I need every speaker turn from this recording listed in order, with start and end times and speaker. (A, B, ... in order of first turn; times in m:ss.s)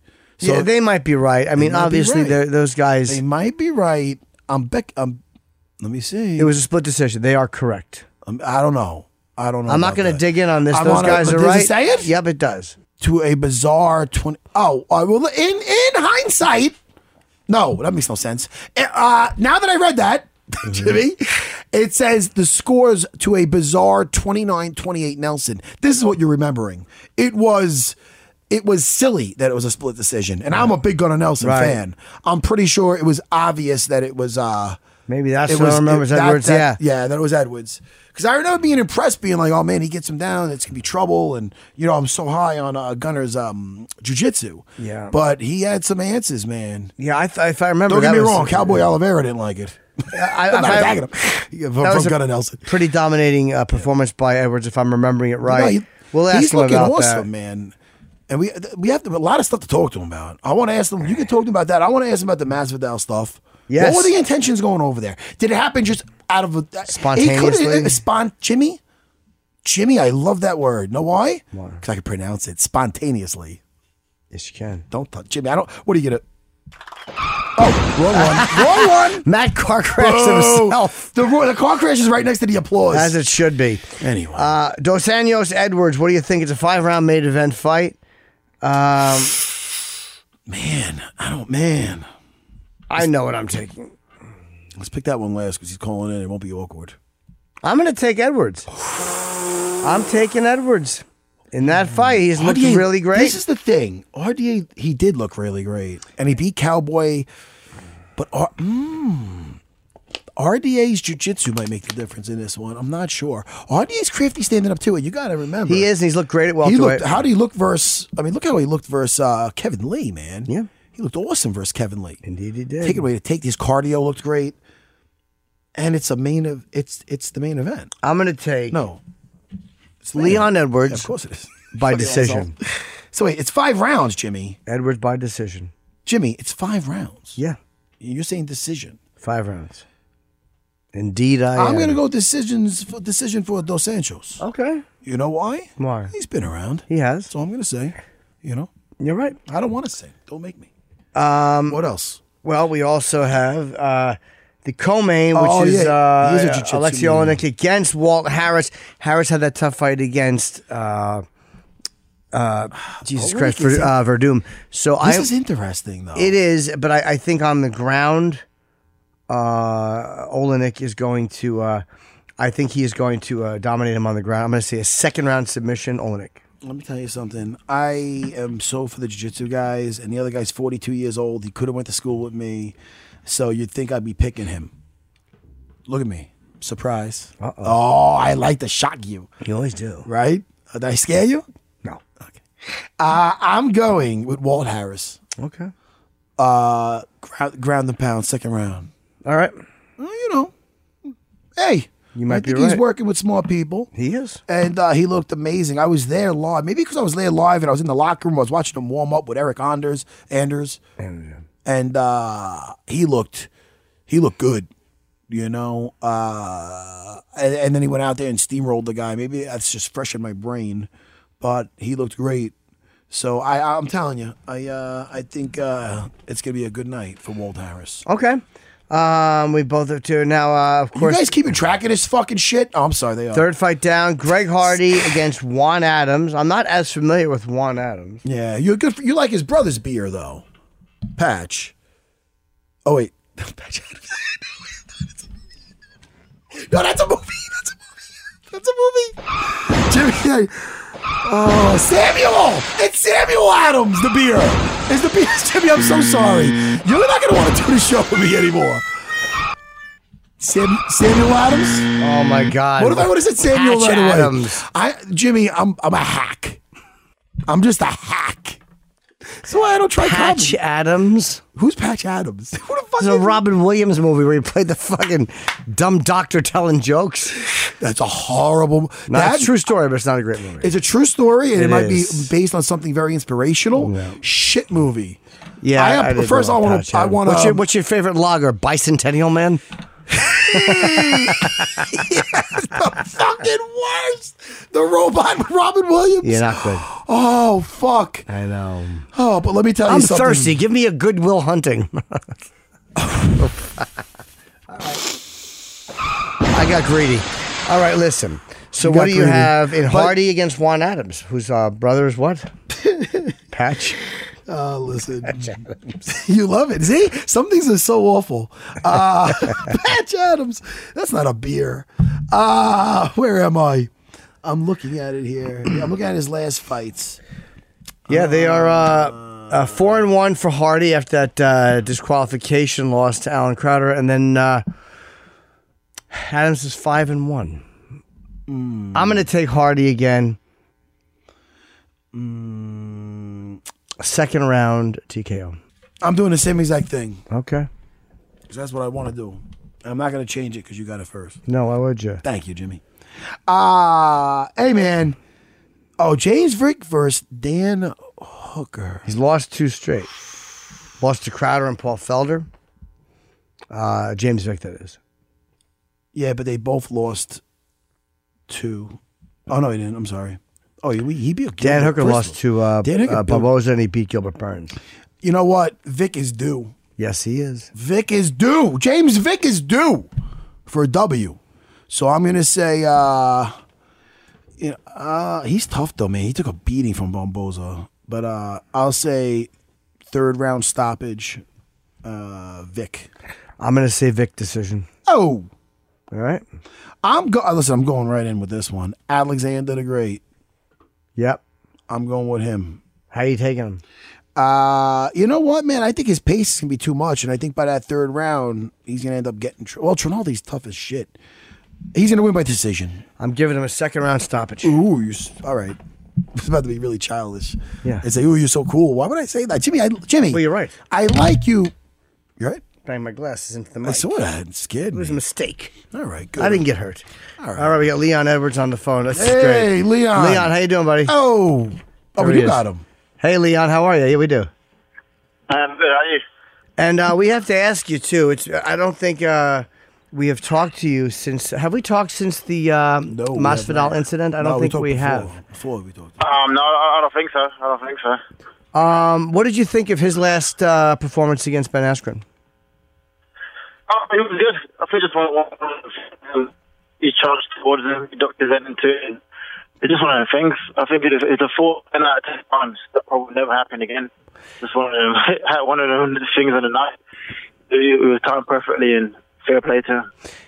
0:00.4-0:00.7 A
0:00.4-0:03.2 B
0:01.6-0:02.4 A
0:03.1-0:05.2 A
0:05.8-0:06.5 A
0:06.4-0:08.0 B
0:08.2-0:12.1 A
0:09.7-0:12.8 B
0:13.0-0:16.8 A
0:17.5-0:28.0 A
0:28.5-0:34.8 A
0:31.4-0:31.8 B
0:35.1-0:36.8 B
0:35.5-0:46.9 A
0:44.8-0:45.2 B
0:47.0-0:48.8 B
0:47.9-0:52.7 A
0:50.1-0:51.1 B
0:51.8-0:57.3 B
0:55.4-0:57.8 A
0:58.3-1:08.8 A
1:03.7-1:04.1 B
1:06.9-1:08.0 B
1:09.6-1:13.6 A
1:11.5-1:11.8 B
1:14.3-1:14.8 B
1:14.9-1:16.2 A
1:17.6-1:19.3 A
1:18.2-1:21.1 B
1:20.0-1:23.2 A
1:22.9-1:28.0 B
1:24.0-1:24.6 A
1:28.6-1:29.4 B
1:30.5-1:32.1 A
1:32.9-1:33.9 B
1:34.8-1:37.0 A
1:37.6-1:38.7 B
1:39.8-1:43.4 B
1:41.8-1:47.3 A
1:48.2-1:49.6 A
1:50.4-1:55.9 A
1:55.7-1:57.2 B
1:56.6-2:02.2 A
2:02.2-2:03.1 B
2:02.8-2:04.6 A
2:05.8-2:07.9 A
2:08.0-2:08.8 B
2:08.7-2:09.0 A
2:10.0-2:12.6 A
2:10.2-2:11.1 B
2:11.7-2:12.5 B
2:13.1-2:14.6 A
2:14.7-2:15.7 B
2:16.1-2:17.4 A
2:18.0-2:19.0 A
2:19.2-2:19.8 B
2:20.9-2:22.0 B
2:21.6-2:24.4 A
2:24.4-2:24.8 B
2:25.0-2:28.7 A
2:25.8-2:26.1 B
2:26.9-2:27.3 B
2:29.0-2:29.4 B
2:29.5-2:30.7 A
2:31.2-2:31.8 B
2:31.7-2:32.2 A
2:32.4-2:41.2 B
2:35.3-2:37.4 A
2:42.3-2:45.3 B
2:42.9-2:43.9 A
2:45.0-2:46.4 A
2:46.2-2:48.4 B
2:49.3-2:51.8 B
2:52.4-2:56.4 B
2:56.6-3:04.7 A
3:05.9-3:09.3 A
3:07.4-3:07.8 B
3:09.4-3:10.1 B
3:10.1-3:11.4 A
3:12.2-3:15.2 A
3:15.4-3:15.7 B
3:16.4-3:18.9 A
3:19.2-3:19.6 B
3:20.0-3:20.5 A
3:21.6-3:23.9 A
3:22.2-3:22.8 B
3:23.9-3:24.4 B
3:24.5-3:30.8 A
3:31.0-3:31.4 B
3:31.6-3:33.5 A
3:34.1-3:34.7 A
3:35.3-3:40.9 A
3:41.4-3:42.5 A
3:43.1-3:48.0 A
3:48.1-3:51.3 B
3:50.9-3:53.5 A
3:53.3-3:58.2 B
3:58.2-4:00.4 A
4:01.2-4:01.7 A
4:02.8-4:05.2 A
4:06.5-4:19.1 A
4:20.4-4:21.9 A
4:22.0-4:24.6 B
4:22.8-4:26.6 A
4:27.5-4:28.6 A
4:29.4-4:30.6 A
4:30.0-4:31.4 B
4:31.6-4:33.4 A
4:33.0-4:37.4 B
4:37.8-4:39.6 A
4:39.1-4:40.7 B
4:40.6-4:45.2 A
4:41.5-4:42.3 B
4:43.8-4:44.2 B
4:45.6-4:49.6 B
4:45.7-4:47.6 A
4:50.1-4:58.3 A
4:50.3-4:52.1 B
4:56.2-4:56.9 B
4:58.3-4:59.1 B
4:59.1-5:00.6 A
4:59.9-5:02.3 B
5:03.0-5:03.5 A
5:03.4-5:03.8 B
5:06.5-5:12.5 B
5:08.8-5:10.2 A
5:13.5-5:14.0 B
5:14.5-5:23.9 A
5:24.4-5:27.2 A
5:28.1-5:30.0 A
5:28.1-5:34.6 B
5:36.1-5:37.6 B
5:38.5-5:39.3 A
5:38.9-5:40.4 B
5:42.1-5:43.6 A
5:44.0-5:45.6 B
5:46.0-5:47.2 A
5:47.3-5:47.7 B
5:48.5-5:51.4 A
5:51.5-5:52.2 B
5:52.2-5:52.8 A
5:53.5-5:55.2 A
5:56.0-5:59.1 A
5:59.1-6:00.1 B
6:01.0-6:02.5 B
6:03.7-6:05.0 B
6:06.1-6:07.4 A
6:08.5-6:13.5 A
6:11.6-6:14.8 B
6:15.2-6:16.8 A
6:17.0-6:17.7 B
6:17.7-6:20.1 A
6:20.7-6:23.5 A
6:24.6-6:29.5 A
6:30.1-6:31.4 A
6:32.0-6:33.1 A
6:33.6-6:34.9 B
6:35.1-6:35.5 A
6:36.1-6:36.4 B
6:37.0-6:40.2 A
6:41.9-6:42.8 A
6:43.1-6:43.8 B
6:44.4-6:51.1 A
6:51.9-6:53.0 A
6:53.2-6:54.8 B
6:54.6-6:55.8 A
6:56.3-7:01.7 A
7:00.3-7:00.8 B
7:02.8-7:04.1 B
7:03.8-7:05.2 A
7:04.9-7:05.7 B
7:05.9-7:06.6 A
7:06.4-7:07.0 B
7:07.4-7:07.8 A
7:07.6-7:11.1 B
7:09.1-7:10.5 A
7:11.0-7:12.8 A
7:12.2-7:12.6 B
7:13.2-7:14.5 B
7:15.5-7:16.2 C
7:16.8-7:25.3 B
7:23.1-7:26.2 A
7:26.2-7:28.2 C
7:28.7-7:32.2 B
7:33.9-7:39.2 C
7:39.8-7:44.1 C
7:44.6-7:47.0 C
7:47.7-7:50.1 C